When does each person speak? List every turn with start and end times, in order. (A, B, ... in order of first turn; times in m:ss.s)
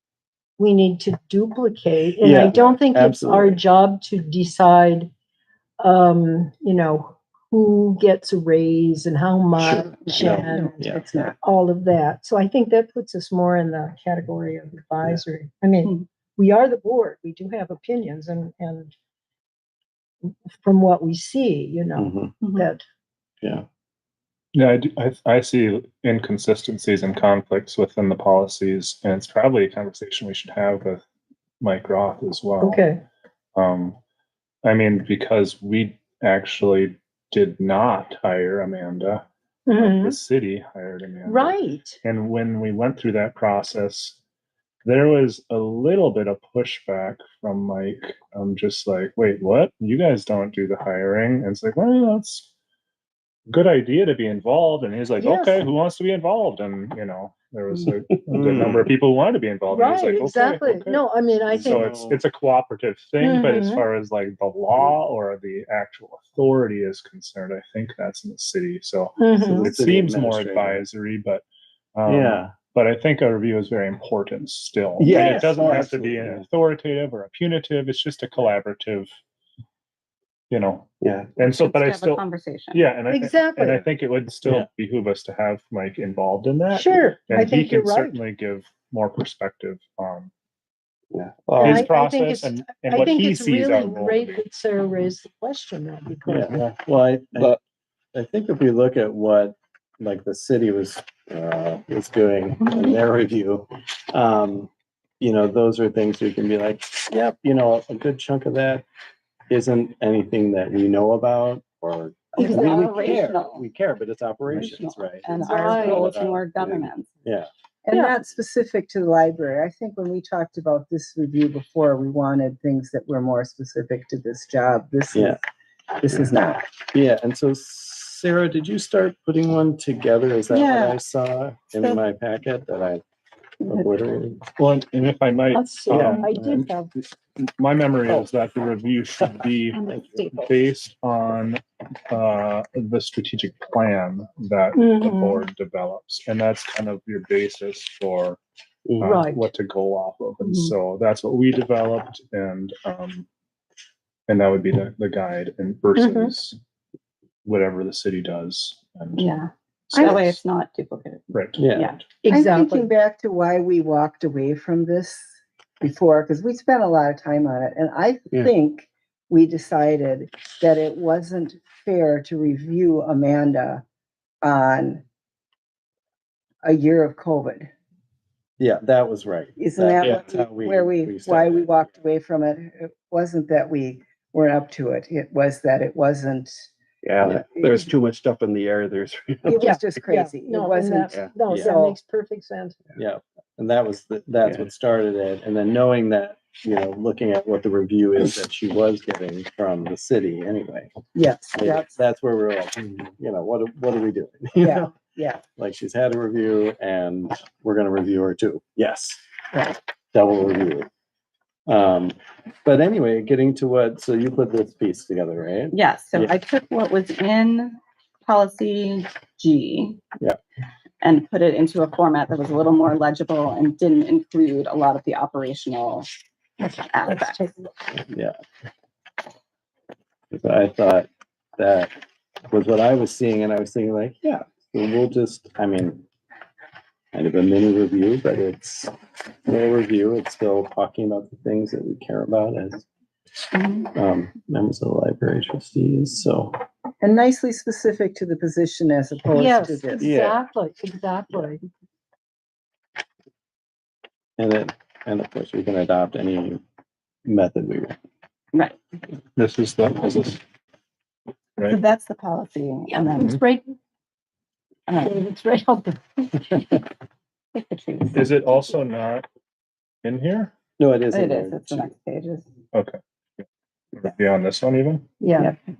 0:00.6-0:05.1 A
0:02.2-0:03.6 B
0:05.8-0:10.7 A
0:09.6-0:11.1 B
0:10.1-0:11.4 C
0:11.4-0:18.9 A
0:20.2-0:22.8 A
0:22.0-0:22.3 B
0:22.4-0:22.7 D
0:24.5-0:31.0 E
0:31.6-0:32.8 E
0:32.6-0:33.0 A
0:33.6-0:34.0 E
0:34.6-0:44.2 E
0:39.7-0:40.2 A
0:41.2-0:42.0 A
0:44.8-0:52.5 E
0:53.5-1:11.4 E
0:55.2-0:55.6 A
0:58.3-0:58.9 B
0:58.4-0:58.8 F
0:59.7-1:01.9 A
1:01.5-1:02.2 B
1:03.2-1:03.9 A
1:09.2-1:09.8 A
1:09.3-1:10.8 B
1:12.0-1:19.1 E
1:12.1-1:12.6 B
1:15.0-1:16.0 F
1:15.0-1:16.4 B
1:20.5-1:22.2 E
1:21.0-1:21.3 F
1:21.6-1:22.9 D
1:22.7-1:30.3 E
1:23.1-1:23.8 A
1:26.7-1:28.2 A
1:31.1-1:31.8 F
1:31.5-1:34.4 E
1:31.6-1:36.6 A
1:36.3-1:37.6 B
1:38.1-1:48.8 B
1:42.7-1:42.9 D
1:49.5-1:57.5 B
1:52.3-1:53.6 D
1:52.4-1:53.0 A
1:54.4-1:57.1 D
1:55.4-1:56.2 A
1:57.8-2:05.4 C
1:57.9-1:58.2 A
2:05.1-2:05.4 B
2:06.0-2:06.7 C
2:06.9-2:13.0 B
2:10.5-2:11.0 D
2:11.8-2:12.0 D
2:13.6-2:13.9 D
2:13.6-2:14.4 B
2:14.6-2:16.7 E
2:15.5-2:16.9 A
2:15.9-2:16.4 B
2:17.4-2:19.8 E
2:19.7-2:20.5 D
2:19.9-2:20.2 B
2:20.3-2:28.4 E
2:24.8-2:25.5 A
2:29.0-2:33.2 E
2:29.0-2:29.5 A
2:30.4-2:30.7 D
2:34.3-2:36.6 E
2:36.0-2:36.3 A
2:37.4-2:39.3 E
2:39.2-2:41.2 D
2:39.9-2:40.4 E
2:39.9-2:40.2 A
2:41.3-2:42.1 E
2:41.6-2:41.9 B
2:41.7-2:42.0 D
2:42.2-2:42.9 A
2:42.3-2:45.3 C
2:45.8-2:53.8 C
2:54.4-2:55.0 C
2:56.6-2:57.7 C
2:58.6-3:01.9 B
2:59.6-3:06.7 C
3:07.0-3:09.7 F
3:09.4-3:12.0 C
3:09.5-3:12.8 A
3:11.5-3:11.8 B
3:13.0-3:20.9 B
3:14.4-3:14.7 F
3:21.1-3:21.9 C
3:21.6-3:24.9 B
3:24.6-3:25.4 C
3:25.6-3:29.2 B
3:30.1-3:30.9 B
3:31.7-3:36.4 B
3:35.7-3:40.0 D
3:41.0-3:46.1 D
3:46.6-3:47.7 A
3:46.6-3:47.4 D
3:48.1-3:48.4 B
3:50.3-3:51.9 B
3:52.5-3:56.0 B
3:57.1-3:58.9 B
3:59.4-4:02.8 B
4:03.5-4:03.9 D
4:03.9-4:06.6 B
4:07.0-4:10.1 C
4:09.3-4:11.6 A
4:10.0-4:10.4 B
4:14.4-4:16.6 B
4:17.2-4:18.0 B
4:18.5-4:18.8 D
4:19.4-4:20.4 E
4:21.6-4:23.4 D
4:22.9-4:23.7 A
4:24.9-4:25.2 D
4:25.0-4:26.4 A
4:27.5-4:28.6 D
4:28.1-4:29.2 E
4:30.0-4:30.5 E
4:30.8-4:31.9 B
4:31.1-4:32.4 D
4:32.7-4:33.4 E
4:34.0-4:35.1 E
4:35.2-4:35.5 A